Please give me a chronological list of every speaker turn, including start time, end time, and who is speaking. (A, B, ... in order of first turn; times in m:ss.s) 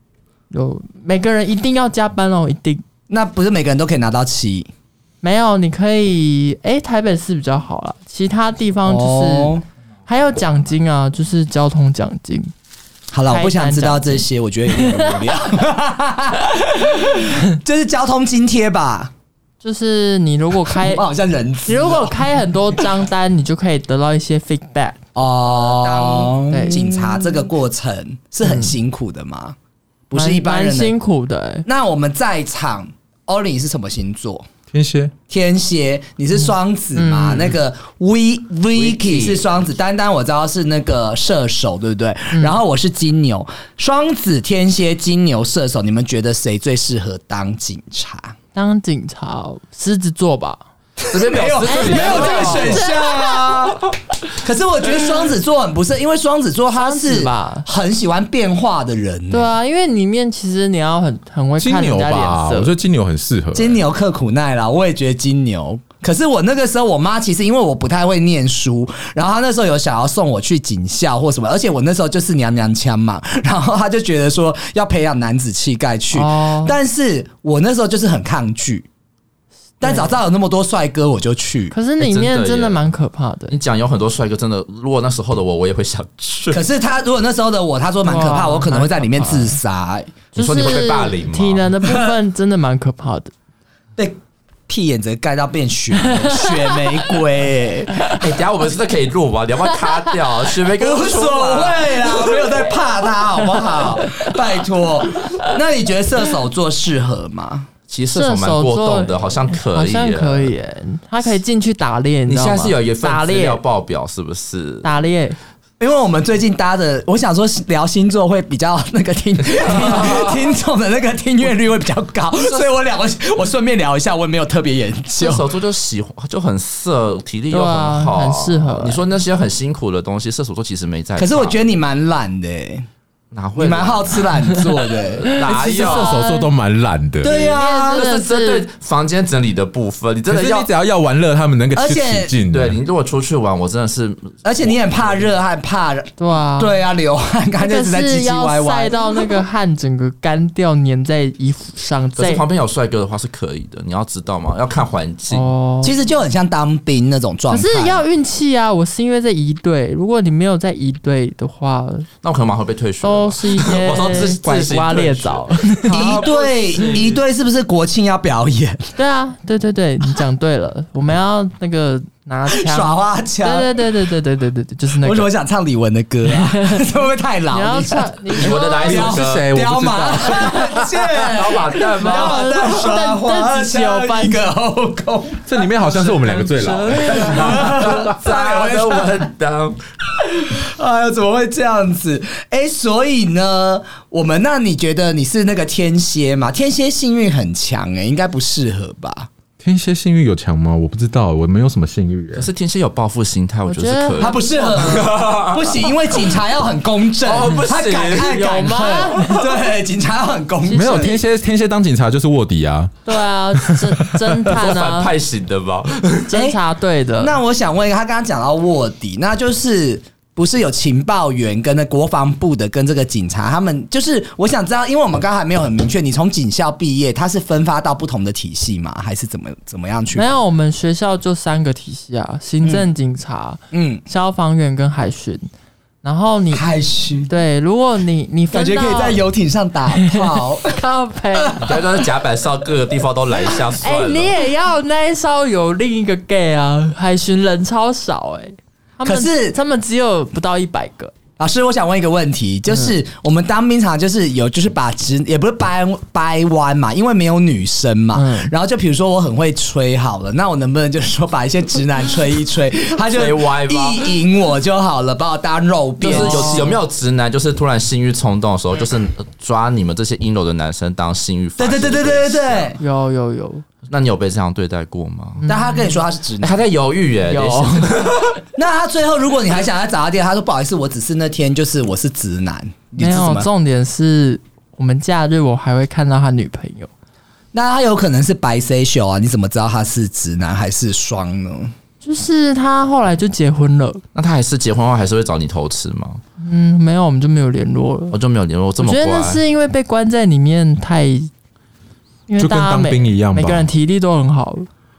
0:00.5-0:02.8 A
0:03.1-0:04.7 B
0:05.2-0:09.5 A
0:08.8-0:09.6 B
0:10.1-0:12.5 A
0:13.1-0:19.1 B
0:13.3-0:14.3 A
0:14.8-0:15.1 A
0:19.6-0:21.0 A
0:20.7-0:22.1 B
0:21.6-0:25.0 A
0:25.2-0:29.6 B
0:26.4-0:27.4 A
0:28.4-0:28.7 A
0:30.1-0:30.9 B
0:30.1-0:31.6 A
0:31.6-0:34.5 B
0:34.7-0:35.1 C
0:35.3-0:48.3 B
0:37.0-0:37.5 A
0:38.7-0:39.5 D
0:48.5-0:50.6 A
0:51.0-0:59.5 B
0:51.1-0:52.9 D
0:51.6-0:53.5 A
0:56.8-0:57.7 A
0:59.3-1:02.7 A
1:01.6-1:03.8 C
1:03.5-1:18.9 B
1:16.1-1:16.8 A
1:19.8-1:21.7 B
1:19.8-1:20.1 A
1:21.7-1:23.6 A
1:22.0-1:22.8 D
1:23.5-1:26.6 D
1:26.5-1:30.1 B
1:28.0-1:29.6 A
1:30.3-1:33.3 A
1:30.3-1:31.7 D
1:34.7-1:38.1 B
1:36.2-1:36.9 A
1:38.1-1:42.2 D
1:40.8-1:47.7 B
1:47.9-1:50.5 D
1:48.1-1:53.6 A
1:52.3-1:54.9 D
1:54.8-1:55.4 A
1:55.8-2:05.5 B
1:59.4-2:00.5 D
2:02.4-2:02.7 D
2:05.2-2:11.6 D
2:07.5-2:09.0 A
2:11.2-2:12.8 B
2:13.3-2:14.3 D
2:13.6-2:15.3 B
2:15.3-2:16.2 D
2:15.4-2:17.5 C
2:15.4-2:16.5 A
2:17.2-2:18.0 B
2:17.3-2:20.7 D
2:17.3-2:18.7 A
2:20.3-2:22.8 C
2:21.7-2:22.3 B
2:22.5-2:24.8 D
2:24.4-2:29.2 B
2:26.2-2:26.7 A
2:27.6-2:32.4 A
2:32.2-2:35.5 D
2:35.3-2:35.9 A
2:35.8-2:38.0 B
2:37.5-2:42.1 A
2:42.2-2:47.0 D
2:43.0-2:47.0 A
2:45.9-2:48.9 B
2:49.0-2:55.3 A
2:52.5-2:53.7 B
2:55.0-3:05.5 B
2:56.3-2:56.8 A
2:57.5-2:59.1 A
2:58.4-2:59.5 D
2:58.8-3:01.3 C
3:01.2-3:02.6 D
3:02.0-3:04.4 A
3:05.5-3:08.1 C
3:06.1-3:09.8 D
3:06.6-3:07.5 A
3:07.2-3:09.3 B
3:10.2-3:19.3 B
3:19.6-3:22.5 C
3:22.3-3:26.2 D
3:23.7-3:25.0 A
3:24.2-3:31.1 B
3:27.2-3:28.6 D
3:28.1-3:29.5 A
3:30.6-3:31.2 A
3:30.7-3:33.0 C
3:33.0-3:35.1 A
3:33.6-3:33.8 C
3:34.5-3:36.3 D
3:36.3-3:37.4 A
3:36.3-3:36.6 B
3:37.2-3:50.3 B
3:50.1-3:55.5 A
3:53.7-3:54.0 B
3:56.0-3:56.6 A
3:56.5-3:57.3 B
3:57.3-3:59.2 A
3:58.5-4:00.8 B
4:00.7-4:01.6 A
4:01.4-4:01.8 B
4:01.6-4:04.3 D
4:03.8-4:11.1 A
4:09.0-4:09.6 B
4:11.4-4:26.8 B
4:18.1-4:18.5 A
4:23.1-4:24.2 D
4:26.0-4:32.7 D
4:26.0-4:26.8 A
4:31.6-4:32.8 B
4:32.8-4:33.6 A
4:33.9-4:35.4 D
4:35.4-4:36.0 A
4:35.5-4:36.6 B
4:36.4-4:38.4 D
4:37.3-4:38.1 A
4:38.5-4:43.5 B
4:43.0-4:46.9 A
4:47.5-4:51.7 B
4:52.0-4:54.0 A
4:54.1-4:56.2 D
4:56.4-4:58.1 A
4:58.1-4:59.4 D
4:58.8-5:01.3 A
5:02.3-5:04.7 A
5:02.4-5:03.7 C